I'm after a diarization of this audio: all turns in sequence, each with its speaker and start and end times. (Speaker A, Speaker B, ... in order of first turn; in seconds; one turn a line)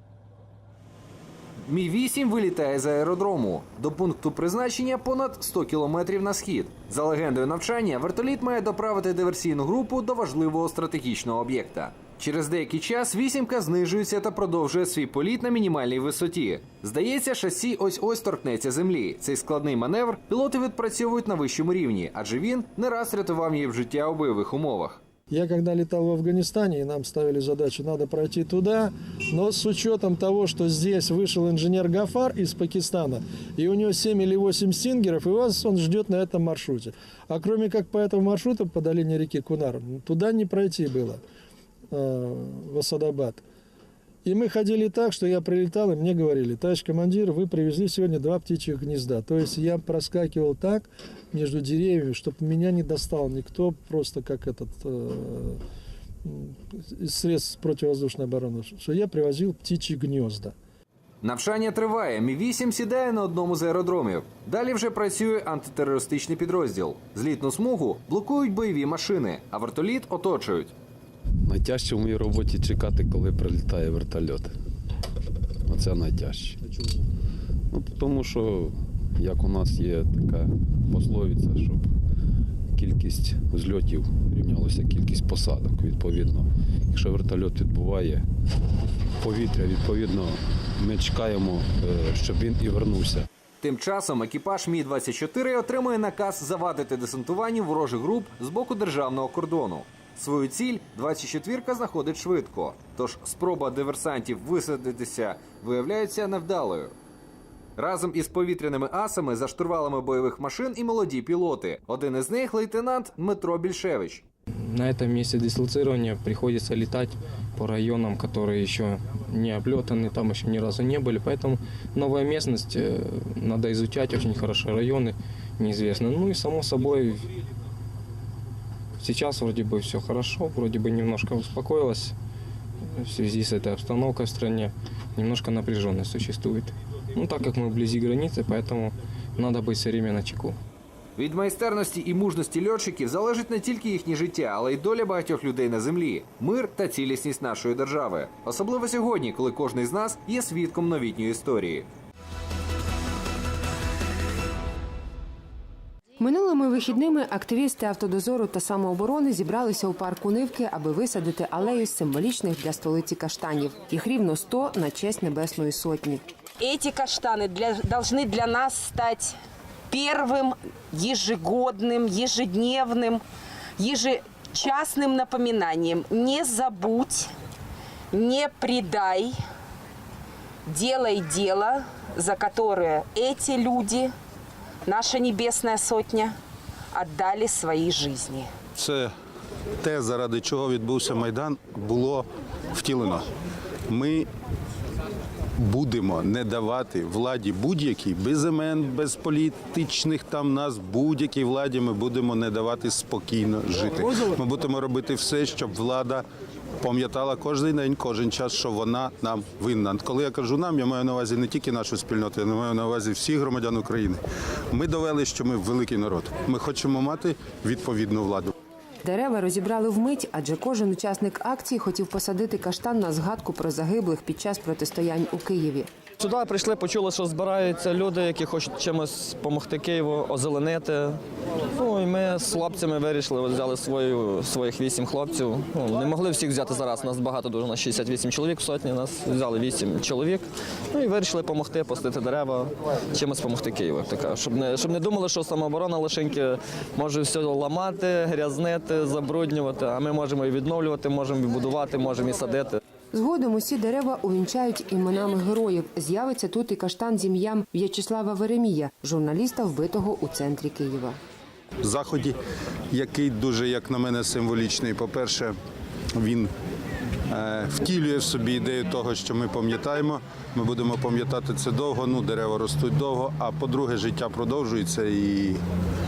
Speaker A: 1.6-25.0
Speaker B: 25.3-41.2
Speaker B: 41.9-43.4
Speaker B: 44.2-55.6
Speaker B: 56.2-60.5
Speaker A: 61.2-70.7
Speaker C: 71.5-74.6
Speaker C: 75.7-76.6
Speaker C: 77.7-81.9
Speaker C: 82.7-88.2
Speaker C: 89.2-93.3
Speaker A: 93.6-106.9
Speaker A: 107.8-114.2
Speaker D: 114.7-127.3
Speaker D: 129.0-132.1
Speaker D: 132.9-140.6
Speaker A: 141.2-151.9
Speaker E: 156.2-166.2
Speaker F: 166.6-169.4
Speaker F: 169.9-173.2
Speaker F: 173.8-177.3
Speaker F: 178.1-179.4
Speaker F: 180.7-184.1
Speaker F: 184.8-186.4
Speaker F: 186.9-188.5
Speaker G: 188.8-189.1
Speaker G: 189.8-193.2
Speaker G: 193.9-194.3
Speaker G: 195.6-206.2
Speaker G: 206.8-214.2
Speaker G: 214.7-218.5
Speaker E: 219.0-225.9
Speaker H: 226.2-231.2
Speaker H: 231.7-252.8
Speaker E: 253.1-261.2
Speaker G: 261.8-262.3
Speaker G: 262.9-265.5
Speaker G: 266.2-266.5
Speaker G: 267.3-275.6